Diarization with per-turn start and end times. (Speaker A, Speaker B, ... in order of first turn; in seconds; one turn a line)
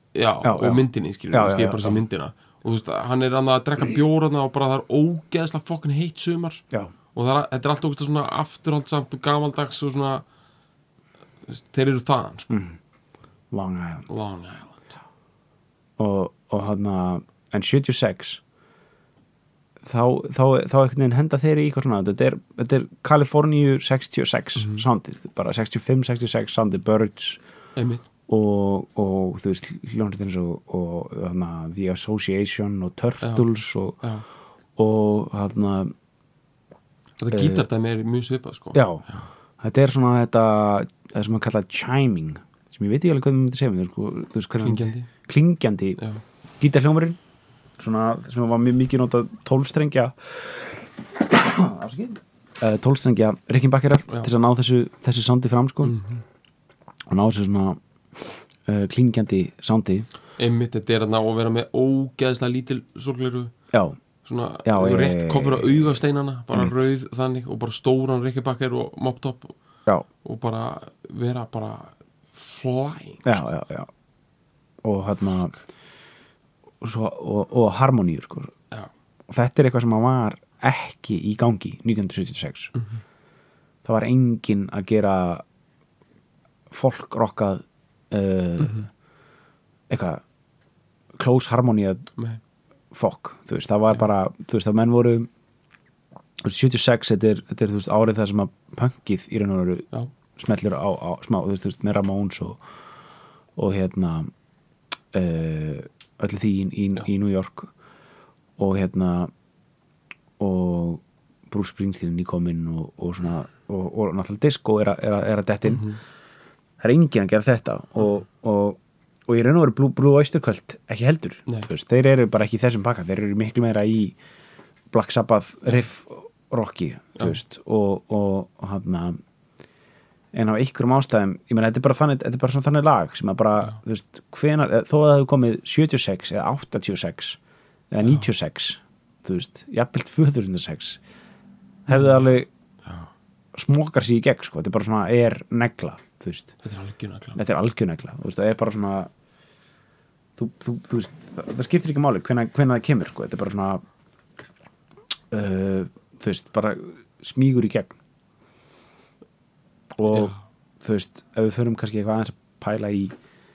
Speaker A: 0.1-6.6
Speaker B: 0.4-2.0
Speaker A: 7.1-10.2
Speaker A: 11.5-12.5
Speaker B: 12.5-12.8
Speaker B: 13.5-14.1
Speaker A: 14.1-14.9
Speaker B: 16.0-18.4
Speaker B: 19.8-27.4
Speaker A: 24.6-24.8
Speaker A: 27.8-28.1
Speaker B: 28.3-34.0
Speaker A: 33.2-33.5
Speaker B: 34.8-35.9
Speaker A: 37.2-39.3
Speaker B: 37.3-37.6
Speaker B: 38.7-39.0
Speaker B: 39.6-46.0
Speaker A: 44.6-45.1
Speaker B: 46.6-47.2
Speaker B: 47.8-56.0
Speaker A: 55.8-56.2
Speaker B: 57.1-60.1
Speaker A: 60.4-63.5
Speaker B: 63.7-64.0
Speaker A: 64.2-69.5
Speaker B: 64.6-66.0
Speaker B: 66.5-66.8
Speaker A: 70.2-73.4
Speaker B: 73.2-73.9
Speaker B: 74.8-75.5
Speaker B: 76.8-78.5
Speaker B: 79.3-82.7
Speaker B: 83.8-85.4
Speaker B: 86.7-88.8
Speaker A: 88.6-88.9
Speaker B: 89.9-90.2
Speaker B: 91.2-92.1
Speaker B: 92.9-95.3
Speaker B: 96.4-102.6
Speaker B: 103.5-104.3
Speaker B: 105.1-107.7
Speaker B: 108.6-109.3
Speaker B: 110.4-115.9
Speaker A: 115.7-116.0
Speaker B: 116.8-124.2
Speaker B: 124.9-129.2
Speaker B: 130.3-137.4
Speaker B: 137.9-141.0
Speaker A: 138.0-138.3
Speaker B: 141.8-142.5
Speaker A: 141.9-142.3
Speaker A: 142.8-143.1
Speaker B: 143.5-146.5
Speaker A: 146.6-147.4
Speaker B: 147.3-149.1
Speaker B: 150.4-153.8
Speaker B: 155.3-158.0
Speaker B: 159.9-163.1
Speaker A: 160.1-160.4